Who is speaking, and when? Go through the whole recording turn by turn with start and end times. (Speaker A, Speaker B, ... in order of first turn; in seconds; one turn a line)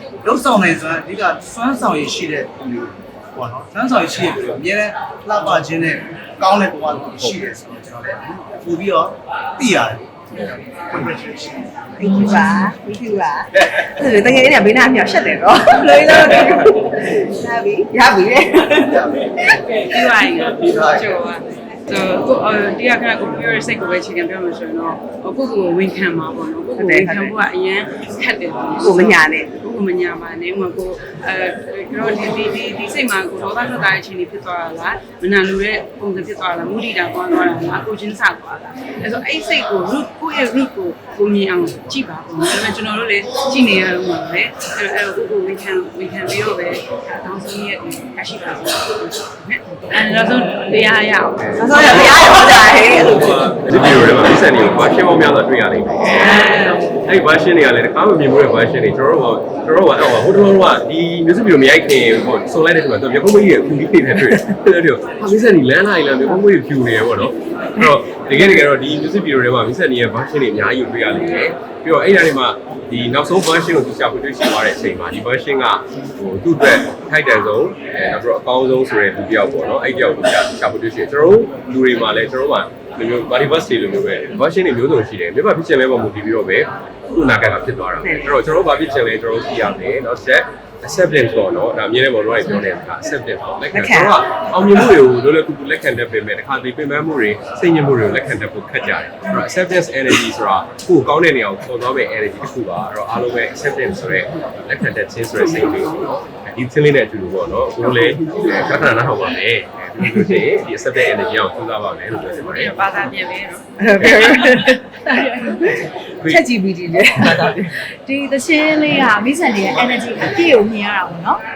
Speaker A: 0.2-12.1
Speaker B: 12.0-19.6
Speaker C: 12.3-12.7
Speaker A: 18.9-19.2
Speaker D: 19.8-52.1
Speaker A: 20.5-21.2
Speaker B: 26.8-27.4
Speaker B: 28.8-29.5
Speaker E: 51.4-112.8
Speaker B: 51.5-53.3
Speaker D: 56.2-56.9
Speaker B: 88.0-88.4
Speaker B: 93.7-94.3
Speaker B: 110.0-110.4
Speaker D: 112.4-113.6
Speaker B: 113.8-114.9
Speaker C: 114.4-115.7
Speaker B: 115.8-117.7
Speaker E: 116.2-116.5
Speaker C: 117.3-121.4